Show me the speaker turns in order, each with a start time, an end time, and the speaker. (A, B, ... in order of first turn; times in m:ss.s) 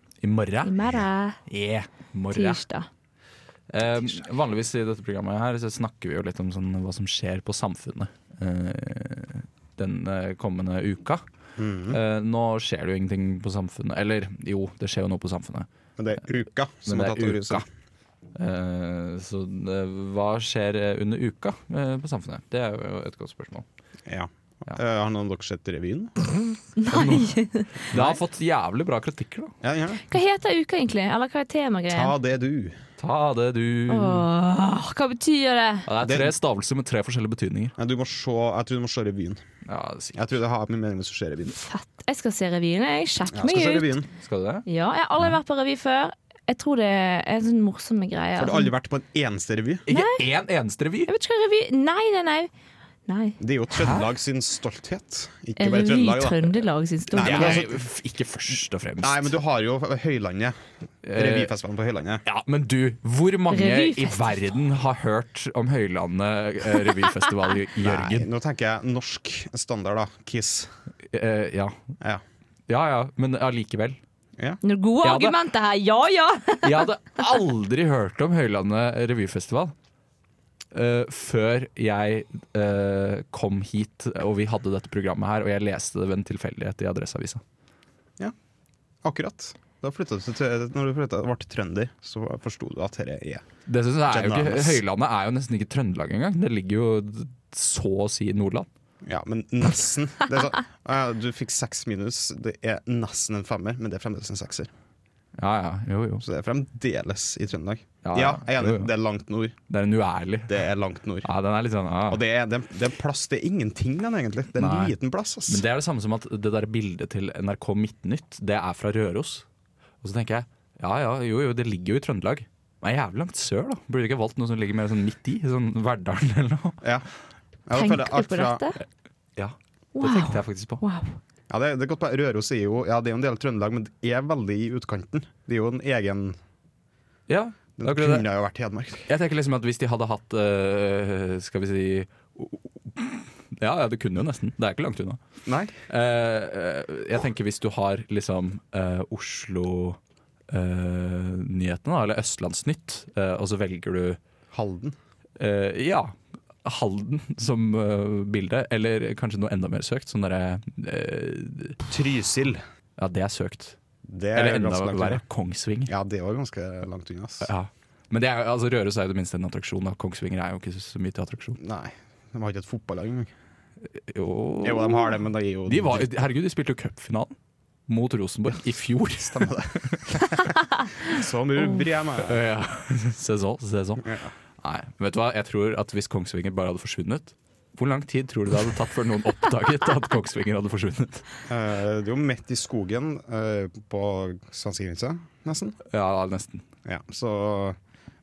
0:00.2-0:02.6 A
0:00.6-0:01.4 B
0:02.3-0:02.9 B
0:03.7-0:11.2 A
0:11.6-0:12.0 C
0:11.9-0:15.7 A
0:16.0-0:17.7 C
0:16.8-0:17.7 A
0:18.4-0:23.6 A
0:24.1-0:26.2 C
0:26.8-0:27.7 B
0:26.9-0:27.3 A
0:27.9-0:29.5 A
0:27.9-0:28.2 C
0:29.6-0:30.0 C
0:30.1-0:32.1 B
0:31.9-0:32.8 C
0:33.0-0:34.3 A
0:33.9-0:35.9 B
0:35.9-0:37.8 A
0:36.0-0:36.4 C
0:37.8-0:39.4 C
0:39.7-0:40.3 A
0:40.1-0:41.6 C
0:41.5-0:44.0 B
0:43.3-0:44.1 C
0:44.2-0:44.7 A
0:44.7-0:48.7 B
0:48.4-0:49.8 C
0:49.9-0:51.1 A
0:49.9-0:50.2 B
0:51.1-0:52.5 B
0:53.1-0:53.4 B
0:53.4-0:56.6 C
0:55.6-0:57.6 B
0:57.1-0:57.7 C
0:57.2-0:59.3 A
0:59.0-1:00.6 C
1:01.0-1:01.5 A
1:01.1-1:02.2 C
1:02.2-1:08.3 A
1:03.5-1:04.4 B
1:07.8-1:10.7 C
1:11.1-1:11.8 A
1:12.7-1:14.0 A
1:14.6-1:16.9 B
1:15.0-1:15.4 A
1:16.6-1:19.7 A
1:20.7-1:27.4 A
1:29.0-1:33.5 C
1:33.7-1:38.7 A
1:34.1-1:34.8 C
1:39.0-1:44.7 C
1:45.4-1:46.2 A
1:46.2-1:49.6 C
1:48.0-1:48.9 A
1:49.7-1:50.6 A
1:50.5-1:51.3 C
1:51.2-1:52.2 A
1:52.1-1:55.6 C
1:54.6-1:55.0 A
1:55.5-1:59.4 A
2:00.0-2:06.8 A
2:06.8-2:07.1 C
2:07.7-2:08.6 C
2:07.7-2:08.8 B
2:09.4-2:10.8 A
2:10.0-2:11.2 B
2:11.5-2:16.4 C
2:17.3-2:18.3 A
2:17.8-2:19.1 C
2:19.1-2:25.2 A
2:25.5-2:25.8 C
2:25.9-2:30.0 A
2:30.5-2:34.2 A
2:34.5-2:35.0 C
2:35.4-2:41.8 A
2:41.9-2:42.6 C
2:43.0-2:43.8 A
2:44.1-2:45.2 C
2:44.3-2:45.9 A
2:45.9-2:47.5 C
2:47.4-2:51.6 A
2:51.6-2:53.3 C
2:53.9-2:57.4 A
2:54.6-2:56.2 C
2:57.9-3:00.0 A
2:59.2-3:00.5 C
3:01.0-3:02.4 C
3:02.2-3:11.3 A
3:04.0-3:04.3 C
3:11.5-3:15.8 C
3:15.9-3:16.6 A
3:16.8-3:17.8 C